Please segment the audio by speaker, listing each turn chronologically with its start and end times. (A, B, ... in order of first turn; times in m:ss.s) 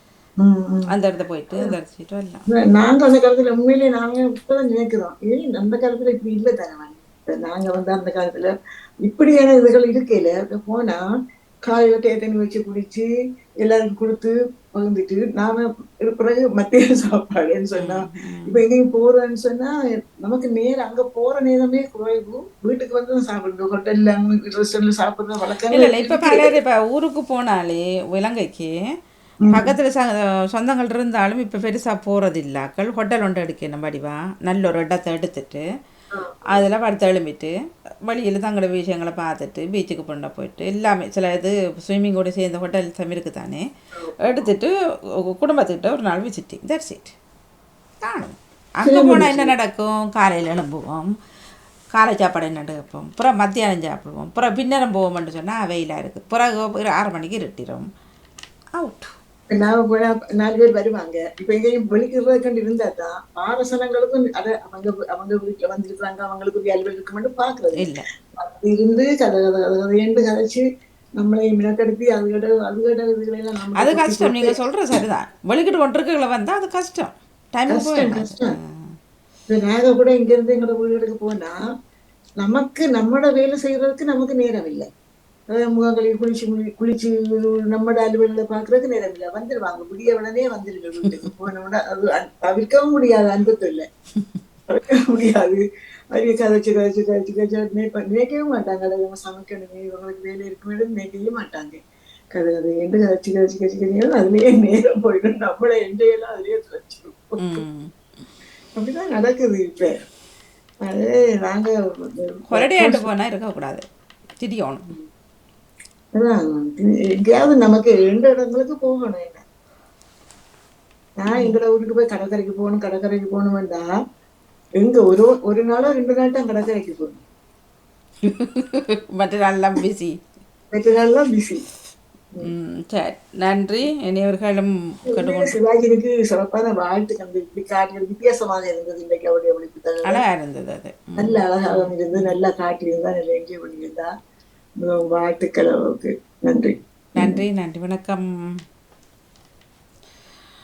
0:00.4-0:00.9 A
0:00.9-0:02.5 B
0:02.5-0:11.0 A
0:11.7-0:13.1 A
0:13.6-0:26.5 A
0:17.8-0:18.6 B
0:25.7-0:28.7 B
0:29.4-0:29.7 A
0:29.5-0:35.6 B
0:36.1-0:36.7 A
0:36.5-0:37.5 B
0:38.1-0:43.6 B
0:44.2-0:44.7 B
0:45.2-0:47.1 B
0:48.0-0:51.1 B
0:48.8-0:49.5 A
0:51.9-0:57.9 B
0:58.8-0:59.1 B
0:59.5-1:10.6 A
1:07.8-1:08.0 B
1:11.2-1:14.9 A
1:13.8-1:18.7 B
1:17.7-1:18.5 A
1:19.5-1:21.6 A
1:22.4-1:24.9 A
1:25.5-1:33.9 A
1:34.7-1:35.6 A
1:36.1-1:41.8 A
1:42.3-1:47.6 A
1:47.4-1:47.9 B
1:48.8-1:50.0 A
1:50.8-1:53.1 A
1:52.5-1:53.8 B
1:54.4-1:54.9 B
1:56.2-1:59.4 A
2:01.2-2:03.9 A
2:01.3-2:01.6 B
2:04.8-2:07.2 A
2:08.2-2:10.2 B
2:10.7-2:11.6 A
2:12.4-2:15.6 B
2:15.1-2:20.2 A
2:20.1-2:22.3 B
2:21.2-2:24.1 A
2:24.8-2:27.4 A
2:27.2-2:28.2 B